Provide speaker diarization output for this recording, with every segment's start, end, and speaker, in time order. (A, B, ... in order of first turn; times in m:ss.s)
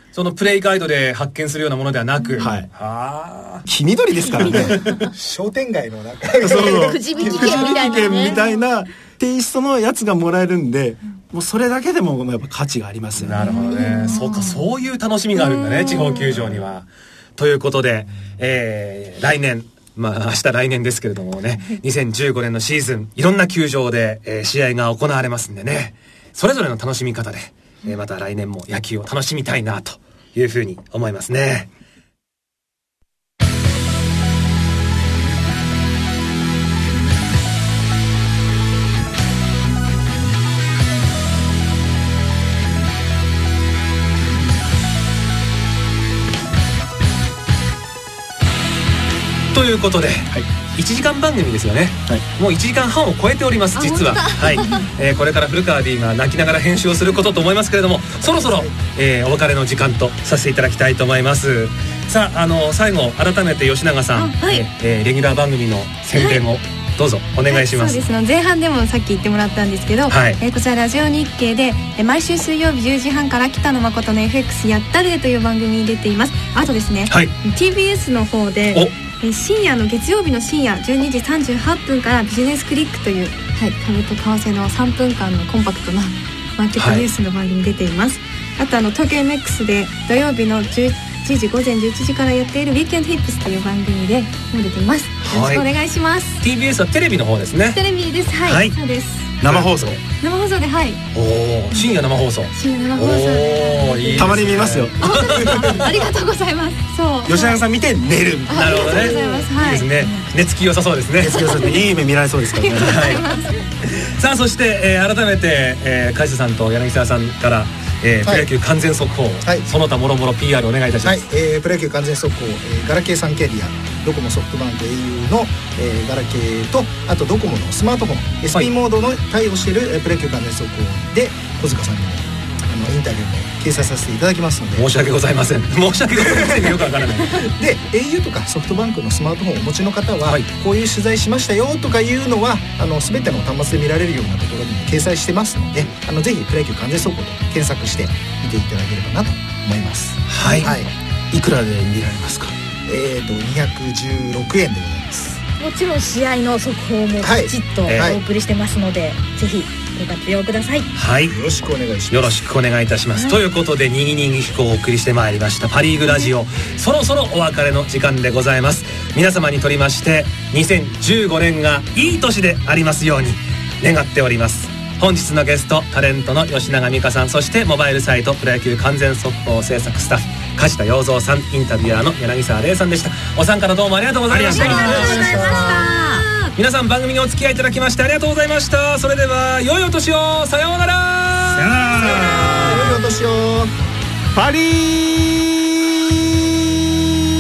0:00.1-0:03.7 A
0:02.4-0:02.7 B
0:03.7-0:04.8 B
0:04.5-0:05.1 A
0:04.5-0:08.3 C
0:04.6-0:04.9 D
0:06.4-0:13.6 B
0:06.5-0:08.5 D
0:13.2-0:31.7 A
0:13.4-0:14.6 E
0:15.5-0:16.3 E
0:49.5-1:08.0 A
0:53.8-0:54.9 E
0:58.3-0:58.7 C
1:04.2-1:04.7 E
1:06.1-1:06.4 E
1:07.5-1:36.4 E
1:10.1-1:10.4 A
1:26.8-1:27.1 A
1:35.2-1:35.7 A
1:36.4-1:37.9 A
1:37.7-1:39.4 E
1:38.4-1:38.8 A
1:39.4-1:39.7 A
1:39.4-1:40.0 B
1:40.2-1:41.1 E
1:41.1-1:46.0 A
1:42.5-1:47.6 E
1:44.2-1:45.4 B
1:47.2-1:49.0 B
1:48.5-1:50.2 E
1:48.5-1:51.6 A
1:51.2-1:53.2 B
1:51.4-1:51.9 E
1:52.6-1:53.6 E
1:52.8-2:01.3 A
2:01.0-2:14.9 C
2:14.8-2:17.5 A
2:16.2-2:16.8 C
2:17.4-2:30.9 C
2:30.3-2:30.7 A
2:30.5-2:30.7 D
2:31.3-2:32.5 B
2:32.9-2:35.4 C
2:35.6-2:40.9 D
2:37.2-2:38.2 C
2:37.9-2:38.2 A
2:41.0-2:41.4 A
2:41.3-2:42.4 C
2:42.1-3:05.8 A
2:43.1-2:43.4 D
3:04.3-3:05.5 B
3:04.4-3:06.5 D
3:04.6-3:05.9 C
3:06.4-3:13.0 A
3:11.5-3:13.0 B
3:12.0-3:13.7 C
3:14.4-3:17.2 B